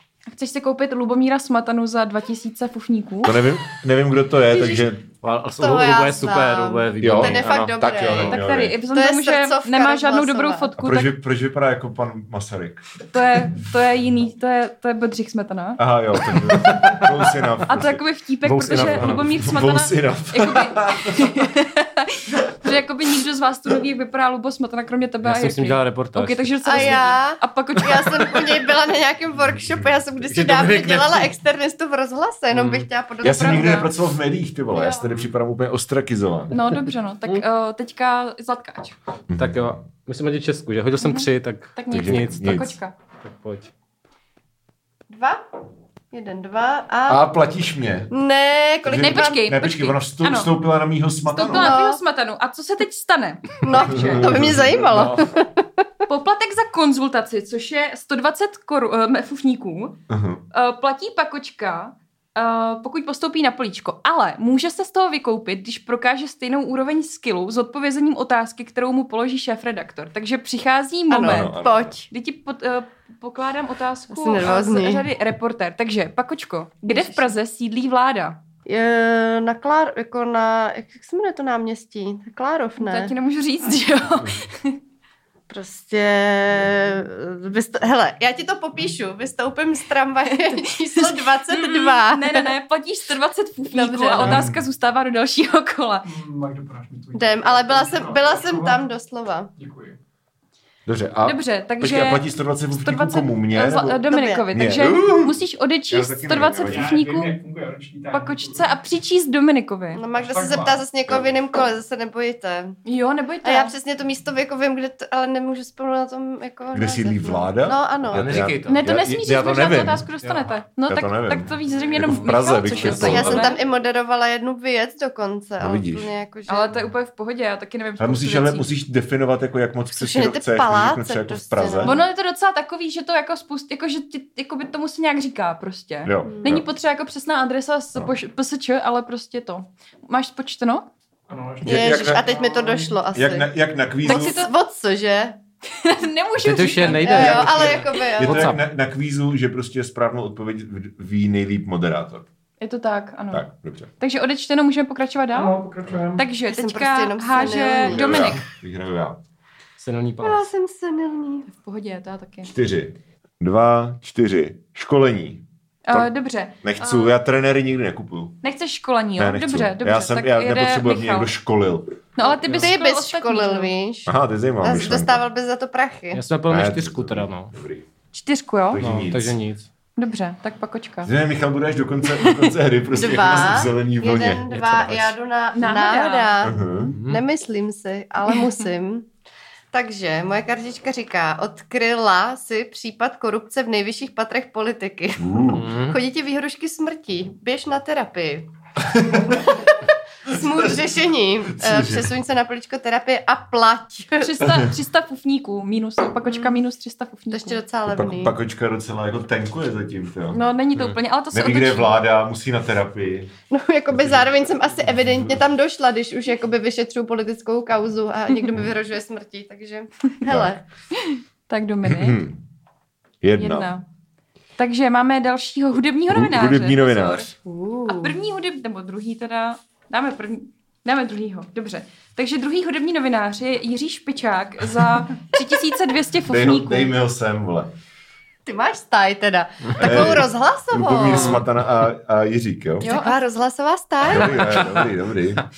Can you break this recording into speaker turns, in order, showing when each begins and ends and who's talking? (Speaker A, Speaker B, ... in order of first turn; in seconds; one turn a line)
Speaker A: 0.3-3.4
Speaker B: 3.2-5.0
Speaker C: 5.2-7.5
Speaker D: 5.6-10.7
Speaker B: 7.0-8.8
Speaker A: 8.1-11.1
Speaker B: 10.8-12.8
Speaker A: 13.1-15.8
Speaker B: 15.8-18.0
Speaker C: 16.6-17.0
Speaker A: 17.7-28.6
Speaker C: 18.4-19.2
Speaker B: 18.7-21.4
Speaker C: 25.2-27.0
Speaker D: 26.6-33.9
Speaker C: 30.2-31.3
Speaker C: 32.5-32.9
Speaker B: 33.2-36.6
Speaker A: 33.3-33.9
Speaker A: 34.7-35.1
Speaker A: 36.5-39.0
Speaker B: 39.3-39.8
Speaker C: 39.4-42.6
Speaker A: 41.0-42.9
Speaker B: 41.9-42.8
Speaker C: 43.2-43.7
Speaker D: 45.1-45.4
Speaker D: 46.1-47.2
Speaker B: 47.1-48.1
Speaker D: 48.1-49.4
Speaker B: 48.8-51.8
Speaker A: 48.9-50.5
Speaker A: 51.3-54.3
Speaker D: 51.5-52.0
Speaker D: 53.6-55.9
Speaker B: 53.8-55.3
Speaker A: 56.1-60.0
Speaker B: 60.1-60.4
Speaker A: 60.5-78.4
Speaker D: 71.1-72.1
Speaker B: 71.2-72.0
Speaker D: 74.1-75.0
Speaker D: 76.9-77.3
Speaker D: 78.7-83.1
Speaker A: 82.8-84.8
Speaker D: 85.5-92.5
Speaker A: 90.3-96.1
Speaker D: 93.7-94.5
Speaker B: 94.2-94.6
Speaker E: 96.0-98.8
Speaker D: 97.1-99.5
Speaker E: 99.5-100.0
Speaker B: 100.8-106.9
Speaker A: 101.2-107.3
Speaker D: 104.1-104.4
Speaker E: 106.6-108.8
Speaker A: 108.1-110.0
Speaker D: 109.9-112.8
Speaker E: 110.1-110.8
Speaker A: 112.8-113.7
Speaker D: 113.4-118.4
Speaker B: 116.7-120.1
Speaker C: 118.1-118.8
Speaker A: 118.7-123.6
Speaker E: 120.2-120.5
Speaker B: 120.9-123.5
Speaker C: 122.0-123.3
Speaker D: 122.8-126.7
Speaker B: 125.6-126.1
Speaker A: 126.5-128.7
Speaker B: 128.0-132.0
Speaker D: 129.9-132.0
Speaker A: 131.8-140.9
Speaker B: 136.0-136.7
Speaker D: 136.2-136.5
Speaker E: 141.3-143.0
Speaker B: 141.6-142.2
Speaker D: 141.6-143.5
Speaker B: 143.1-144.4
Speaker D: 144.0-145.4
Speaker A: 144.0-144.5
Speaker A: 145.7-148.1
Speaker C: 146.4-148.6
Speaker D: 146.9-148.5
Speaker B: 147.1-152.3
Speaker A: 152.6-153.4
Speaker B: 153.3-153.9
Speaker A: 154.0-155.6
Speaker E: 155.3-156.3
Speaker A: 156.2-158.4
Speaker D: 156.5-158.3
Speaker B: 157.8-159.2
Speaker C: 159.8-160.4
Speaker D: 160.2-161.5
Speaker A: 161.5-162.5
Speaker B: 162.4-166.1
Speaker A: 165.9-167.2
Speaker B: 166.6-168.4
Speaker A: 168.4-171.3
Speaker B: 169.2-172.0
Speaker A: 172.2-173.7
Speaker C: 172.4-172.7
Speaker D: 172.5-176.2
Speaker B: 174.1-175.2
Speaker C: 176.1-177.5
Speaker B: 176.5-177.9
Speaker A: 178.1-178.8
Speaker B: 178.7-179.4
Speaker C: 178.8-179.7
Speaker A: 180.0-181.1
Speaker B: 181.0-184.9
Speaker D: 182.9-189.1
Speaker C: 184.5-185.1
Speaker A: 185.5-186.5
Speaker B: 186.4-187.0
Speaker C: 186.9-187.2
Speaker A: 188.3-188.5
Speaker D: 189.7-198.5
Speaker B: 195.2-195.7
Speaker C: 195.5-196.0
Speaker B: 198.8-199.3
Speaker D: 199.2-204.5
Speaker B: 200.5-200.8
Speaker B: 201.5-202.2
Speaker A: 204.2-207.6
Speaker B: 204.5-204.7
Speaker D: 206.3-206.5
Speaker D: 207.3-208.3
Speaker B: 207.8-210.4
Speaker A: 210.3-212.0
Speaker B: 211.3-213.3
Speaker D: 213.5-220.6
Speaker B: 220.2-220.6
Speaker A: 220.9-222.2
Speaker B: 221.8-222.4
Speaker B: 223.2-223.7
Speaker A: 223.4-223.8
Speaker A: 224.6-227.3
Speaker B: 226.1-227.3
Speaker D: 227.4-228.1
Speaker A: 227.9-236.9
Speaker B: 236.2-237.7
Speaker D: 238.4-241.4
Speaker B: 239.8-242.9
Speaker D: 242.8-244.6
Speaker A: 242.8-243.2
Speaker B: 244.0-245.4
Speaker C: 244.6-244.8